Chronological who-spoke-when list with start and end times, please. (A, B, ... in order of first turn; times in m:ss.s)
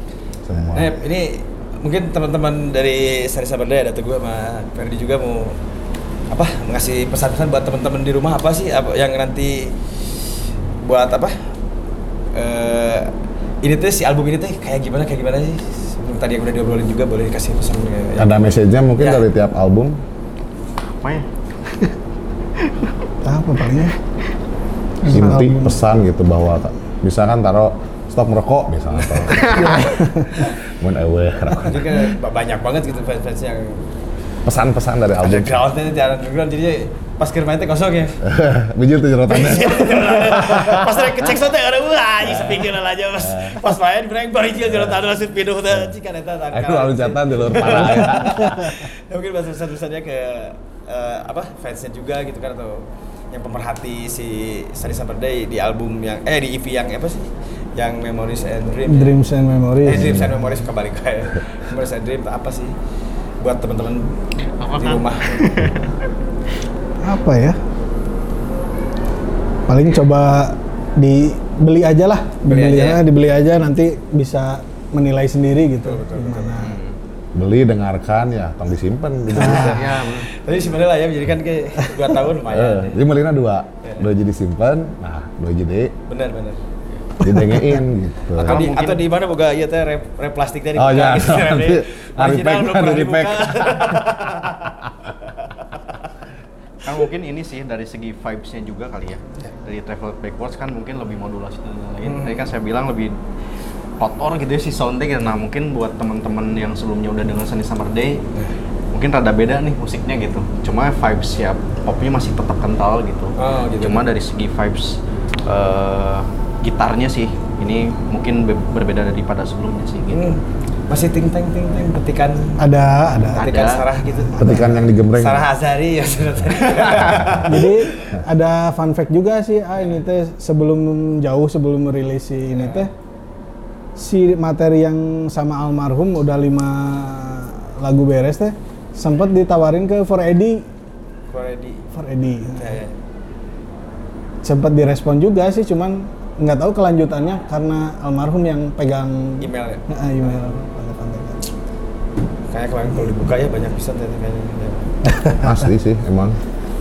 0:00.4-0:01.0 A
0:00.7-0:05.6 B
0:06.3-0:09.9 B
0:10.8-0:11.5 B
0:12.3-0:13.1 B
0:13.6-0:18.4 B
0:18.2-0:20.0 A
0:19.0-0:19.2 B
0:21.0-0:22.0 C
0:22.6-0:23.0 C
0:23.2-0:24.0 D
0:25.0-0:25.8 D
0:25.0-0:32.1 A
0:28.9-0:29.8 B
0:29.3-0:29.8 C
0:29.6-0:30.3 D
0:31.5-0:33.9 B
0:34.4-0:35.6 A
0:35.2-0:38.2 B
0:38.2-0:41.1 A
0:39.3-0:59.2 B
0:42.2-0:42.7 A
0:43.2-0:43.6 A
0:44.6-0:45.1 A
0:46.5-0:48.8 A
0:58.8-1:00.4 D
0:59.8-1:02.7 B
0:59.9-1:00.3 A
1:03.4-1:04.2 B
1:04.6-1:06.0 C
1:04.7-1:05.5 B
1:07.0-1:07.6 D
1:09.7-1:16.8 D
1:12.4-1:13.0 B
1:15.8-1:16.7 B
1:16.6-1:17.0 C
1:17.3-1:20.0 A
1:19.3-1:19.9 D
1:19.5-1:20.3 C
1:20.2-1:23.0 B
1:22.5-1:25.9 A
1:23.8-1:24.1 B
1:26.1-1:26.6 B
1:27.2-1:27.8 D
1:27.2-1:28.6 A
1:28.4-1:29.0 C
1:28.4-1:35.9 B
1:30.7-1:34.0 A
1:36.8-1:43.2 C
1:42.0-1:42.5 B
1:44.0-1:48.2 C
1:48.9-2:00.3 C
1:53.4-1:54.0 B
2:00.1-2:02.6 B
2:02.6-2:03.5 D
2:03.3-2:08.2 B
2:03.4-2:03.8 C
2:04.2-2:04.8 D
2:04.3-2:05.5 A
2:07.0-2:07.5 A
2:07.4-2:12.9 D
2:12.5-2:12.9 B
2:14.0-2:20.6 D
2:21.3-2:21.8 B
2:21.9-2:22.8 D
2:22.6-2:22.9 B
2:24.4-2:31.5 D
2:29.4-2:29.8 B
2:32.5-2:35.0 B
2:35.0-2:35.7 D
2:35.4-2:36.4 A